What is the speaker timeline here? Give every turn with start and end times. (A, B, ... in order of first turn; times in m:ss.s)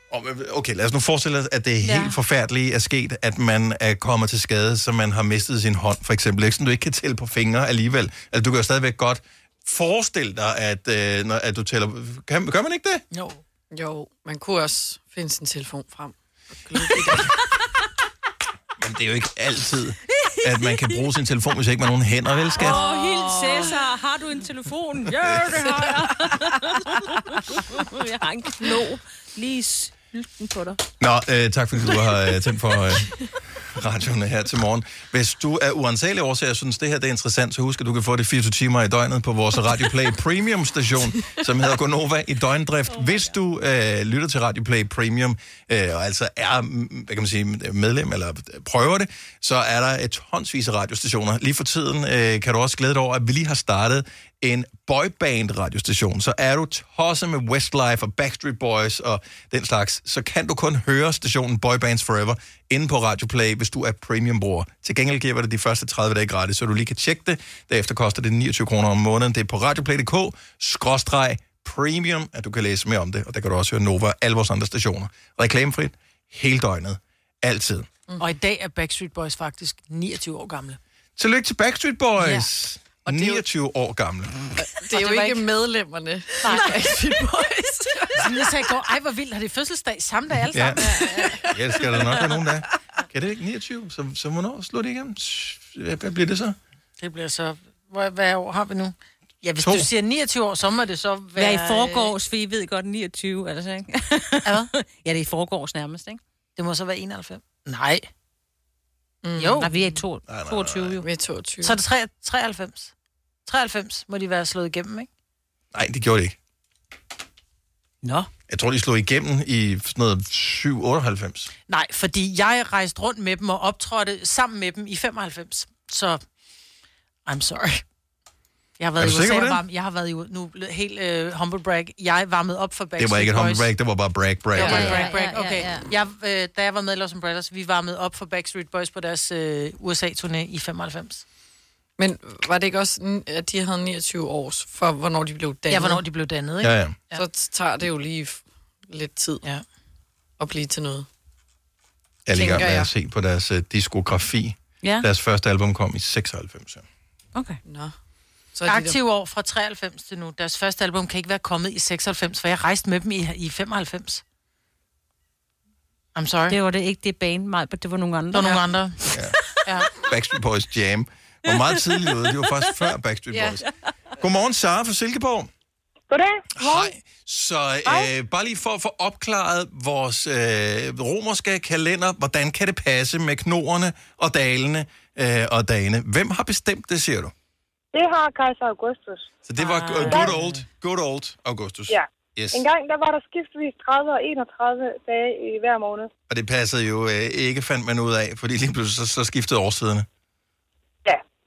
0:00.1-0:13.0 A
0:01.8-0:02.2 B
0:13.1-0:13.4 C
0:13.7-0:17.4 D
0:18.8-0:22.8 A
0:20.1-0:21.0 B
0:22.5-0:30.8 B
0:22.6-0:23.8 D
0:31.0-0:33.1 A
0:33.7-1:17.9 A
1:18.2-1:20.8 C
1:21.2-1:24.5 A
1:22.2-1:22.5 C
1:23.0-1:23.4 D
1:24.6-1:28.5 D
1:24.9-1:25.4 C
1:26.4-1:27.2 C
1:28.1-1:32.2 C
1:30.5-1:30.8 A
1:30.8-1:31.5 D
1:31.5-1:36.6 A
1:37.0-1:42.1 C
1:39.6-1:39.9 A
1:41.4-1:46.2 B
1:46.6-1:48.1 C
1:49.2-1:49.7 D
1:49.4-1:49.8 C
1:49.6-1:51.0 B
1:50.3-1:51.0 A
1:51.0-1:51.8 D
1:51.6-1:52.9 C
1:53.4-1:55.1 C
1:55.7-1:56.4 A
1:58.5-2:01.5 A
2:01.7-2:06.2 C
2:07.2-2:07.8 C
2:08.8-2:13.7 C
2:09.0-2:09.6 A
2:13.0-2:15.1 A
2:14.6-2:15.9 B
2:14.6-2:21.2 C
2:22.0-2:26.0 D
2:25.7-2:27.2 C
2:26.6-2:27.0 A
2:27.1-2:29.4 D
2:30.4-2:31.1 D
2:32.2-2:36.8 A
2:32.3-2:32.9 D
2:37.6-2:37.9 D
2:38.5-2:39.0 D
2:38.7-2:44.2 C
2:46.1-2:46.6 C
2:46.5-2:48.7 B
2:48.3-2:49.0 C
2:49.6-2:49.9 C
2:50.0-2:53.6 A
2:51.5-2:52.1 B
2:53.3-2:53.6 D
2:54.2-2:55.5 A
2:56.1-2:56.9 E
2:56.6-3:07.3 A
2:57.8-2:58.1 E
3:07.9-3:09.3 E
3:09.4-3:12.6 A
3:09.6-3:10.6 C
3:10.0-3:10.3 E
3:11.9-3:16.1 E
3:16.3-3:20.1 A